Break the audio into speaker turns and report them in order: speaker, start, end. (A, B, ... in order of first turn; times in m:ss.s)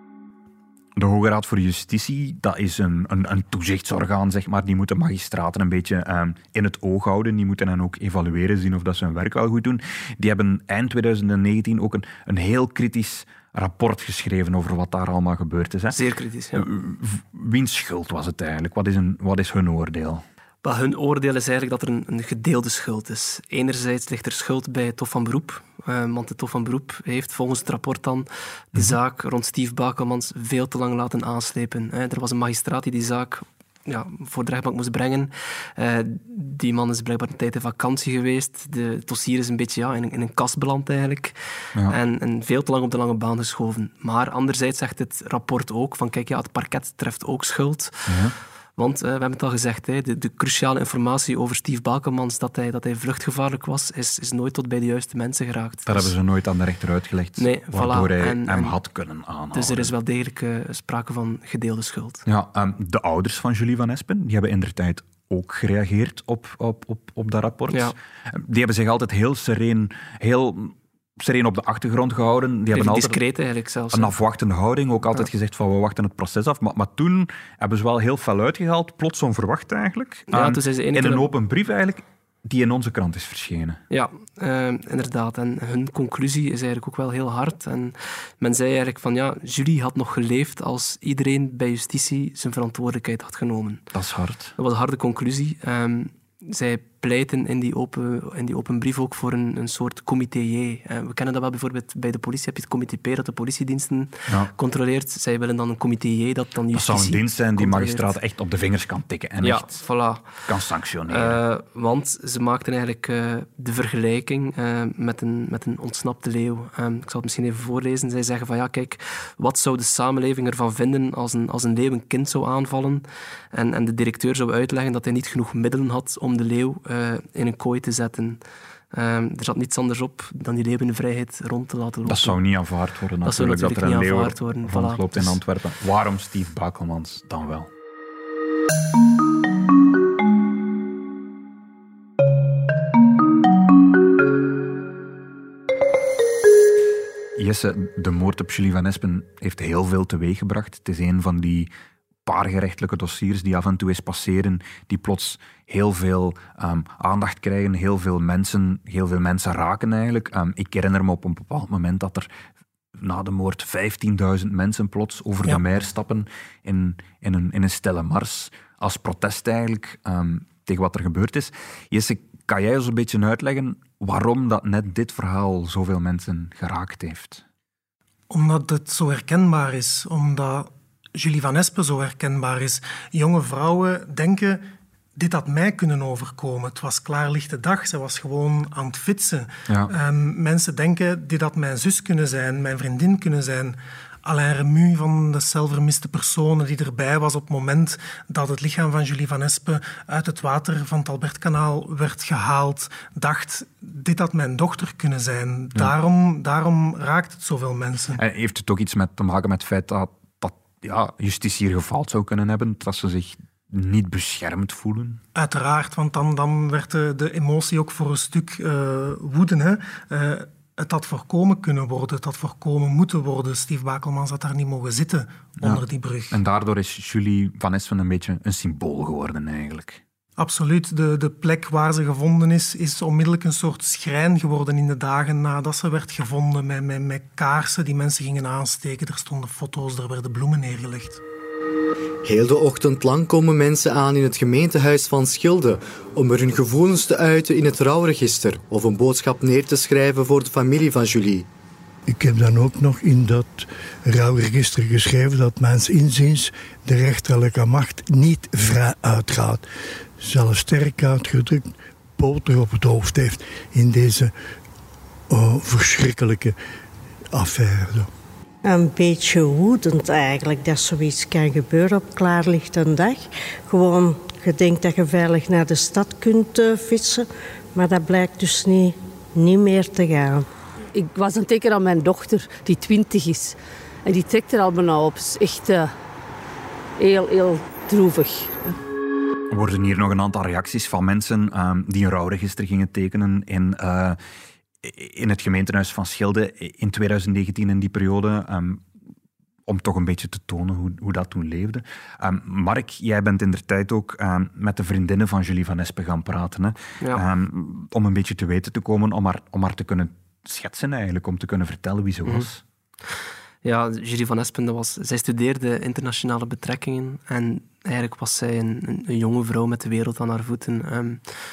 0:01.0-0:16.0 A
0:15.9-0:16.7 B
0:16.6-0:20.2 A
0:20.6-0:41.4 B
0:41.9-0:48.2 B
0:48.1-0:48.3 A
0:48.8-0:56.1 B
0:55.9-0:59.9 A
0:57.4-0:58.8 B
0:59.5-1:02.2 B
1:02.3-1:13.2 A
1:07.7-1:08.0 B
1:12.7-1:14.1 B
1:13.9-1:23.8 A
1:20.3-1:21.3 B
1:23.9-1:33.8 B
1:33.9-1:34.6 A
1:34.6-1:48.2 B
1:46.7-1:49.8 A
1:49.4-1:50.3 B
1:50.5-1:51.4 A
1:51.1-2:08.4 B
2:08.9-2:12.4 B
2:12.1-2:17.7 A
2:13.2-2:15.4 B
2:27.4-2:31.7 A
2:32.3-2:42.3 A
2:43.0-2:57.4 A
2:58.3-3:04.6 C
3:05.2-3:28.2 C
3:28.2-3:35.2 A
3:35.4-3:46.4 C
3:45.6-3:50.0 A
3:50.4-4:01.2 C
4:02.2-4:11.5 D
4:12.1-4:19.6 E
4:20.2-4:24.3 E
4:25.3-4:26.6 E
4:27.3-4:28.1 E
4:28.6-4:40.5 F
4:40.9-4:46.0 G
4:47.0-4:48.8 G
4:49.5-4:54.2 A
4:54.8-4:58.9 A
4:59.7-5:12.6 A
5:13.6-5:21.2 B